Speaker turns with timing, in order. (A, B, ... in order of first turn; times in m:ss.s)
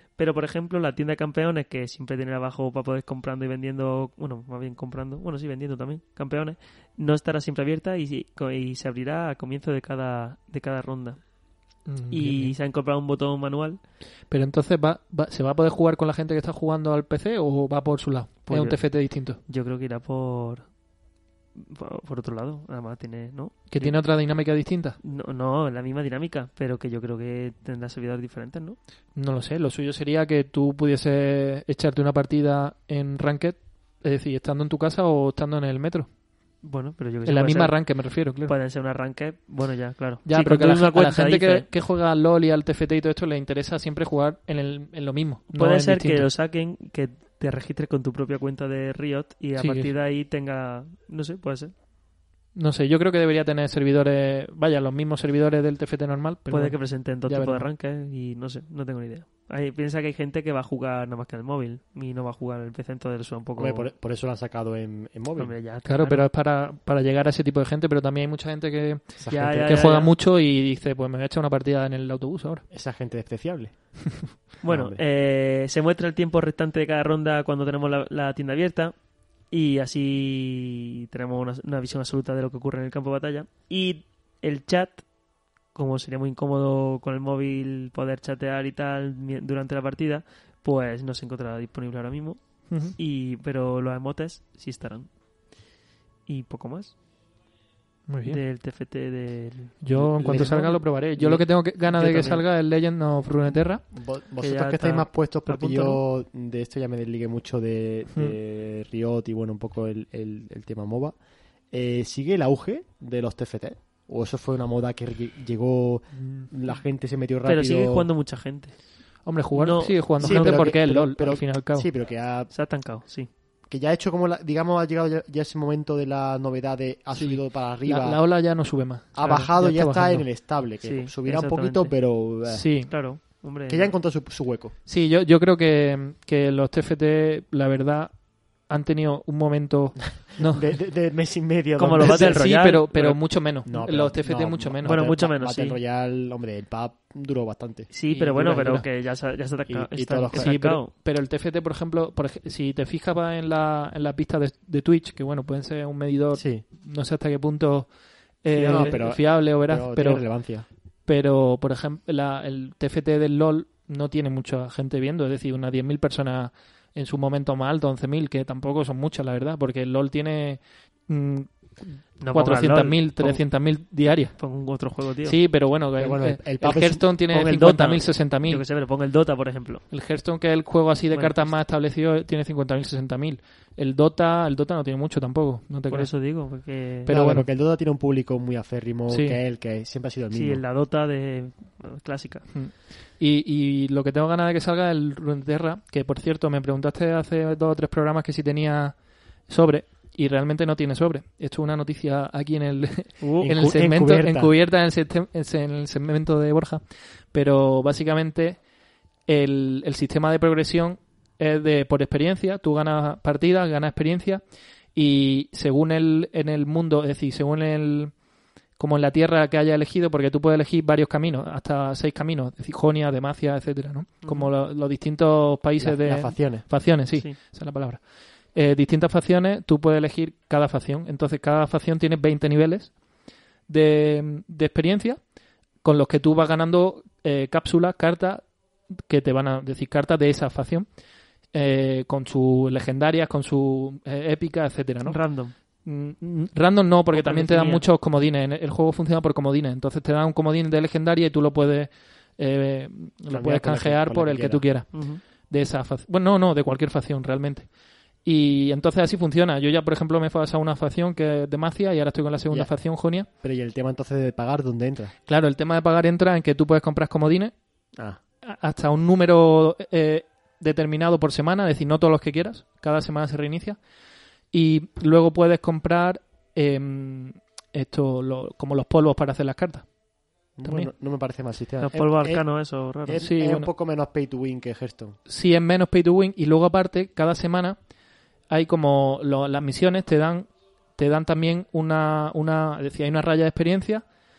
0:00.2-0:11.2 A
0:11.9-0:12.6 B
0:12.1-0:13.8 A
0:14.3-0:19.4 B
0:18.5-0:20.7 A
0:21.6-0:24.0 A
0:23.7-0:25.0 B
0:25.0-0:28.8 A
0:29.2-0:36.1 B
0:36.6-0:41.7 A
0:37.2-0:38.5 B
0:40.2-0:46.3 B
0:45.5-0:51.7 A
0:49.6-0:49.9 B
0:52.5-0:57.7 B
0:56.5-1:03.9 A
1:03.6-1:05.6 C
1:05.4-1:06.3 A
1:05.8-1:12.6 B
1:09.2-1:09.7 C
1:09.3-1:10.1 A
1:12.7-1:14.0 C
1:14.6-1:18.9 A
1:14.6-1:15.0 C
1:19.5-1:25.1 A
1:25.7-1:35.1 A
1:32.7-1:33.0 B
1:36.3-1:36.9 A
1:38.1-1:38.4 B
1:38.3-1:42.4 A
1:39.8-1:43.8 B
1:39.9-1:41.4 C
1:43.9-1:51.2 C
1:44.4-1:46.0 A
1:51.7-1:58.1 C
1:56.2-1:56.5 B
1:57.4-1:58.8 A
1:59.2-2:01.9 B
1:59.5-2:00.8 A
2:00.2-2:02.5 C
2:02.5-2:03.3 A
2:03.7-2:08.5 C
2:07.1-2:10.3 B
2:09.1-2:13.0 C
2:10.8-2:12.1 A
2:12.5-2:12.9 B
2:12.9-2:14.0 A
2:13.7-2:14.7 C
2:14.9-2:20.8 B
2:20.4-2:22.5 C
2:21.8-2:23.3 A
2:22.0-2:25.1 B
2:23.6-2:27.9 C
2:24.8-2:25.8 A
2:27.9-2:30.9 A
2:28.1-2:28.9 B
2:29.7-2:30.6 C
2:30.3-2:40.3 B
2:36.3-2:36.6 C
2:38.6-2:39.0 A
2:38.6-2:40.7 C
2:41.0-2:54.4 B
2:52.2-2:55.4 A
2:55.2-2:58.6 B
2:56.0-2:57.3 C
2:57.3-2:59.9 A
2:59.9-3:06.1 B
3:01.1-3:01.5 A
3:05.9-3:07.1 A
3:07.1-3:07.5 B
3:07.1-3:10.6 C
3:09.1-3:09.4 B
3:10.3-3:12.5 A
3:12.5-3:28.6 B
3:23.2-3:23.5 A
3:23.4-3:24.5 C
3:29.3-3:34.4 B
3:34.9-3:38.2 B
3:38.8-3:53.0 B
3:44.2-3:44.5 A
3:45.8-3:46.7 C
3:53.7-3:55.2 B
3:55.8-4:00.9 B
4:01.5-4:23.3 B
4:05.0-4:05.5 A
4:07.1-4:07.8 A
4:13.3-4:14.7 C
4:14.9-4:15.2 A
4:22.5-4:25.1 C
4:25.3-4:27.5 B
4:28.4-4:33.8 B
4:34.5-4:39.9 B
4:40.6-4:45.2 C
4:40.6-4:40.9 B
4:41.8-4:43.2 A
4:43.2-4:43.7 B
4:45.3-4:47.8 B
4:48.5-4:54.0 B